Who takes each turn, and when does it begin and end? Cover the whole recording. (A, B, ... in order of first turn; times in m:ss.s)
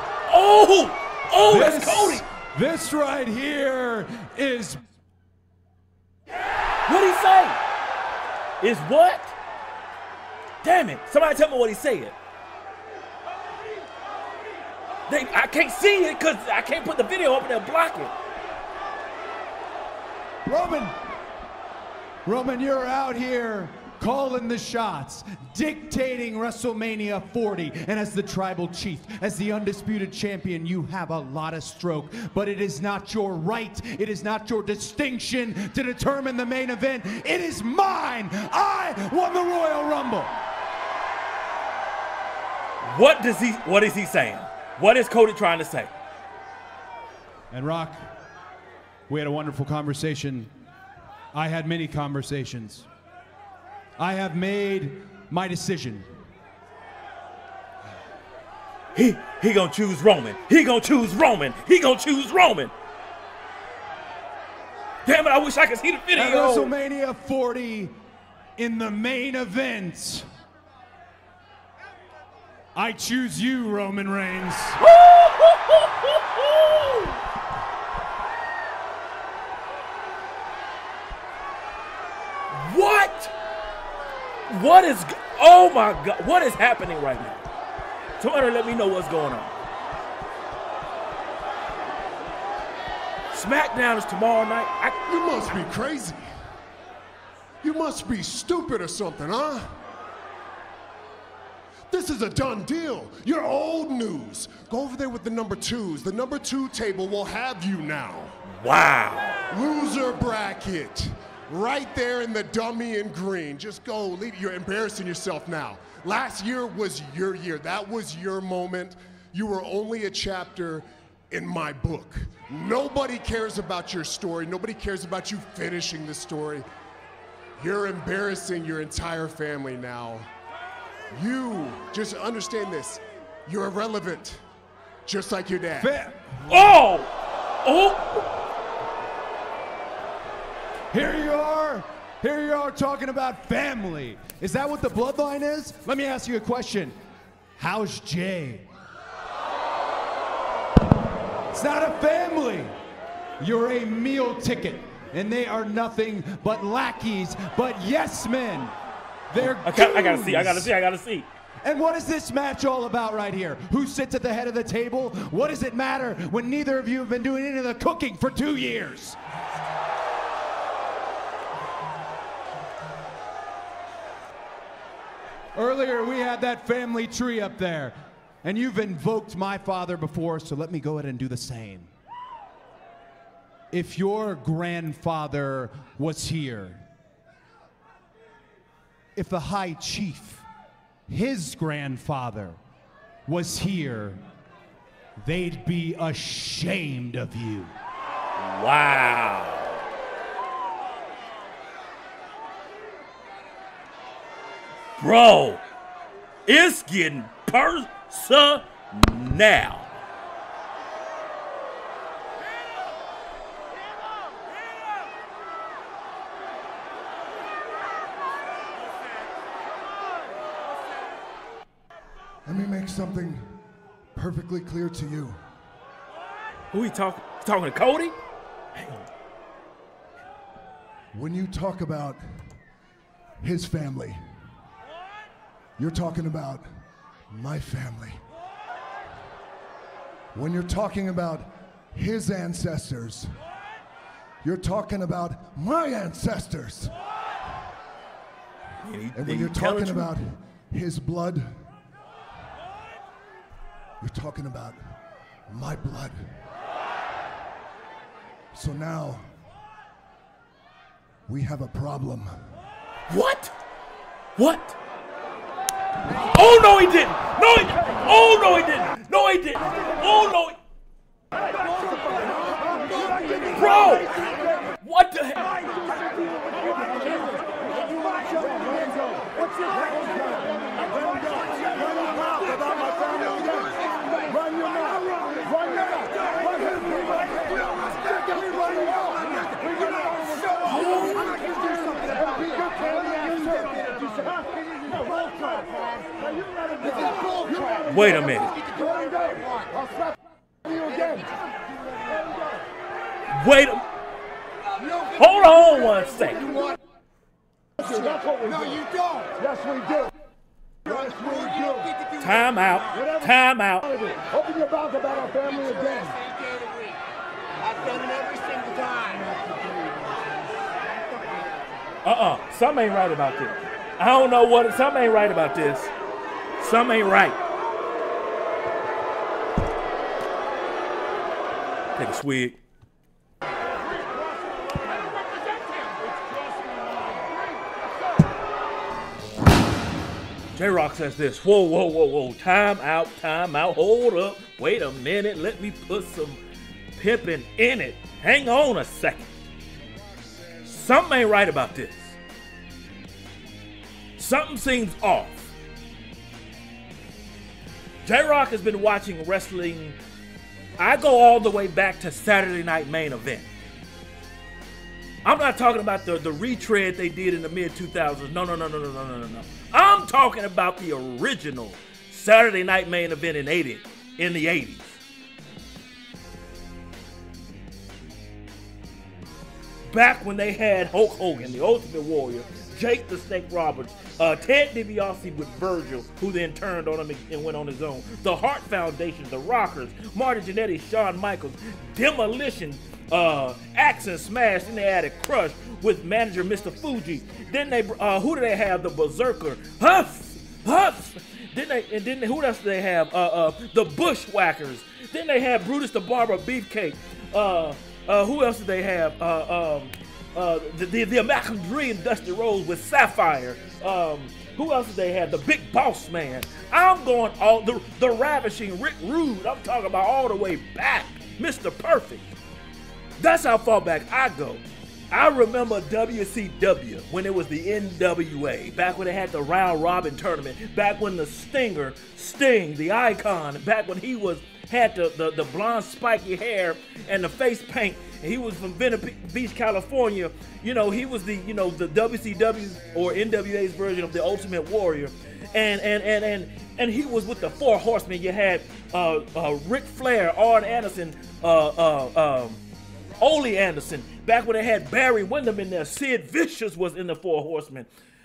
0:00.3-0:02.2 A
0:01.4-0:04.8 B
0:06.8-0:07.6 A
0:08.6-0:09.4 A
0:10.6-0:12.2 A
0:15.1-0:18.1 A
0:20.5-0:20.9 B
0:22.2-0:40.4 B
0:42.8-0:45.9 A
0:47.5-0:48.1 B
0:49.1-0:50.5 B
0:51.3-0:52.9 B
0:54.0-0:56.1 B
0:58.9-1:02.7 A
1:05.0-1:06.7 A
1:06.2-1:08.0 B
1:08.6-1:10.3 B
1:12.7-1:14.8 B
1:14.8-1:17.2 A
1:22.5-1:23.3 A
1:24.5-1:27.4 A
1:28.2-1:29.5 A
1:33.3-1:35.0 A
1:35.1-1:36.2 C
1:37.6-1:39.7 C
1:41.9-1:48.4 C
1:48.4-1:49.4 A
1:49.5-2:06.6 C
2:07.6-2:10.3 C
2:11.1-2:14.4 C
2:15.0-2:15.9 C
2:15.8-2:16.7 B
2:16.5-2:18.3 A
2:20.9-2:27.0 B
2:27.6-2:28.7 B
2:31.5-2:32.8 B
2:33.4-2:38.7 B
2:39.3-2:40.7 B
2:39.4-2:41.3 A
2:41.6-2:49.2 B
2:55.5-3:01.9 B
3:03.7-3:06.8 B
3:09.2-3:10.5 B
3:11.1-3:12.6 B
3:13.2-3:14.2 B
3:15.2-3:17.8 B
3:18.4-3:19.8 A
3:25.0-3:25.6 A
3:26.4-3:29.9 A
3:42.4-3:43.6 D
3:44.1-3:45.4 D
3:46.7-3:48.2 A
3:48.7-3:49.0 A
3:51.1-3:52.2 D
3:53.4-3:54.2 D
3:55.8-3:56.7 D
3:57.3-3:58.2 D
4:00.3-4:03.3 D
4:04.4-4:06.9 D
4:08.8-4:10.1 A
4:09.1-4:11.5 D
4:14.0-4:14.8 D
4:15.5-4:16.2 D
4:18.5-4:19.3 D
4:21.3-4:22.3 D
4:23.1-4:23.5 A
4:24.4-4:24.8 A
4:26.2-4:30.6 A
4:33.4-4:34.2 A
4:34.8-4:35.9 A
4:38.5-4:38.9 D
4:41.3-4:45.6 D
4:46.2-4:47.4 D
4:48.2-4:49.0 D
4:49.9-4:50.4 D
4:50.7-4:51.2 A
4:51.4-4:53.7 D
4:57.8-4:58.7 A
4:59.2-4:59.7 E
5:01.0-5:01.3 E
5:03.3-5:03.8 A
5:05.0-5:06.6 A
5:07.9-5:08.2 C
5:08.7-5:09.3 E
5:10.9-5:11.9 D
5:12.2-5:14.2 A
5:14.9-5:16.1 D
5:17.8-5:19.2 E
5:22.0-5:25.9 A
5:26.6-5:27.4 A
5:32.0-5:32.6 A
5:40.5-5:46.4 A
5:47.0-5:49.3 A
5:50.6-5:52.2 A
5:54.2-5:55.5 A
5:58.0-6:00.0 A
6:00.8-6:03.5 A
6:05.2-6:15.0 A
6:19.9-7:02.3 A
7:03.2-7:32.6 A
7:33.2-7:37.9 A